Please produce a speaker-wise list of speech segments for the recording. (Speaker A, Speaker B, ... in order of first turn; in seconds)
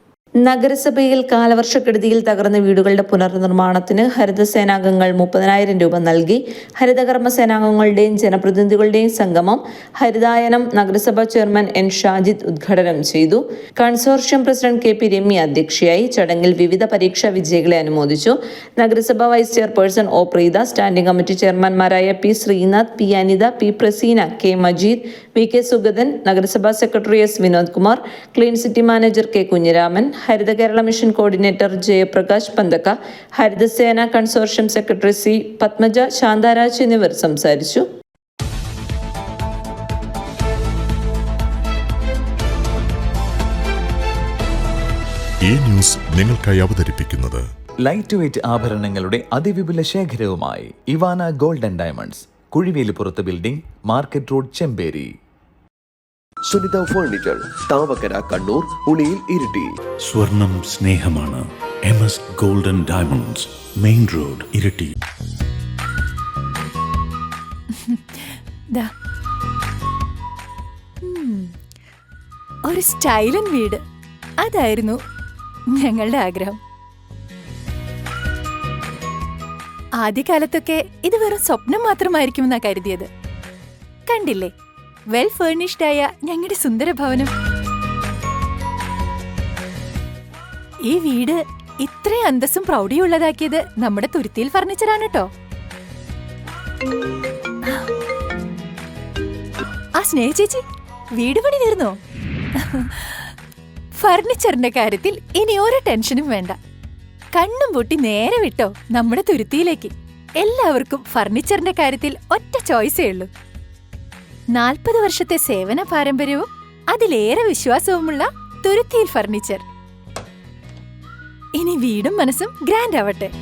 Speaker A: 0.4-37.8
Speaker B: 45.5-47.4
Speaker C: 47.8-55.1
Speaker D: 56.4-59.8
Speaker E: 60.0-64.9
Speaker F: 67.8-68.9, 71.0-71.5, 72.7-73.8, 74.4-75.0, 75.7-76.6, 80.0-83.1, 84.1-84.5, 85.1-87.3, 90.8-95.3, 100.0-100.6, 101.2-102.0, 102.6-103.3, 104.0-106.5, 107.3-113.3, 114.5-119.6, 121.5-123.3